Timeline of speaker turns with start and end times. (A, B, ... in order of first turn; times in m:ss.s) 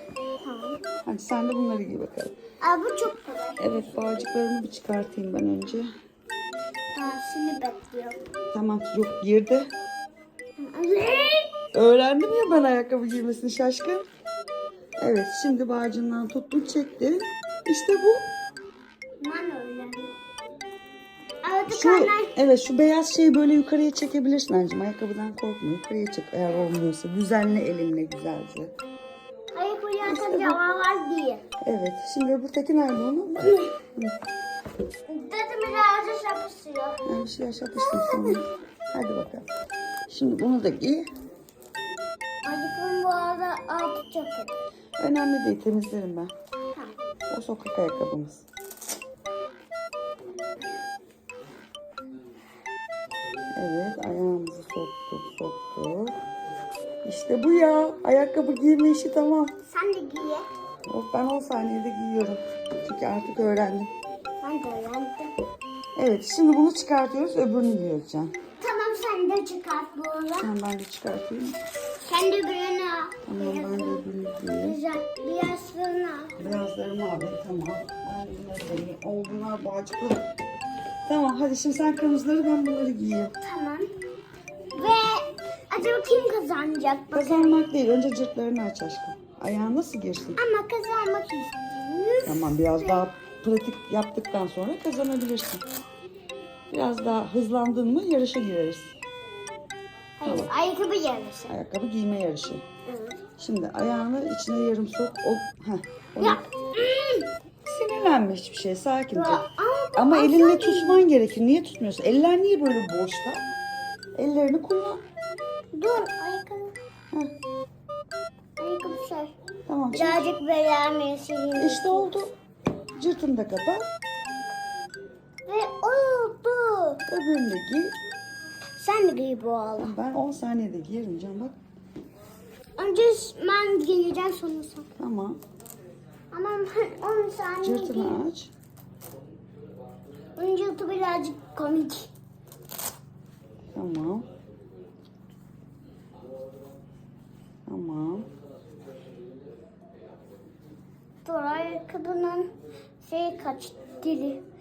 0:00.4-0:00.8 A
0:01.0-0:02.3 B
0:02.6-0:04.2 A
0:03.6-0:05.9 B
0:07.0-0:08.2 A
0:08.5-0:09.7 B
0:10.6-0:11.5 A
0:11.7-0:14.0 B
0:15.0-0:18.2 B
0:19.2-0:20.1 A
0:21.4-0:22.3 A
0:21.7-0:28.8 B
0:29.5-0:31.4 A
0:30.0-0:30.6 B
0:31.6-0:34.1 B
0:33.4-0:33.7 A
0:35.1-0:37.0 A
0:37.0-0:39.5 B
0:37.8-0:38.4 A
0:40.1-0:41.1 B
0:42.4-0:44.6 A
0:45.0-0:46.3 B
0:47.3-0:48.4 B
0:53.5-0:56.2 B
0:57.0-0:59.5 B
0:59.7-1:00.4 A
1:00.9-1:03.9 B
1:04.4-1:05.3 A
1:06.0-1:08.3 B
1:08.6-1:10.5 A
1:10.4-1:11.6 B
1:12.0-1:14.0 A
1:13.3-1:14.8 B
1:14.6-1:16.4 A
1:16.4-1:20.2 B
1:21.1-1:23.3 B
1:23.4-1:23.9 A
1:24.7-1:27.6 A
1:27.1-1:30.4 B
1:30.4-1:33.1 A
1:32.2-1:35.6 B
1:36.7-1:39.0 B
1:40.2-1:41.5 A
1:40.2-1:40.5 B
1:41.5-1:42.6 B
1:42.9-1:43.2 A
1:43.4-1:46.4 B
1:46.2-1:47.3 A
1:47.6-1:49.4 B
1:49.1-1:51.0 A
1:50.0-1:53.4 B
1:54.2-1:55.0 B
1:55.7-1:56.8 A
1:58.6-1:59.3 A
1:59.7-2:00.2 B
1:59.9-2:02.2 A
2:01.6-2:02.3 B
2:03.0-2:03.9 B
2:05.4-2:07.0 A
2:07.1-2:08.0 B
2:08.8-2:09.9 A
2:09.8-2:11.6 B
2:12.8-2:14.9 A
2:15.0-2:15.4 B
2:16.3-2:18.2 A
2:17.6-2:18.5 B
2:20.4-2:22.1 A
2:23.7-2:24.3 B
2:27.7-2:28.3 B
2:31.2-2:32.5 A
2:33.0-2:34.4 A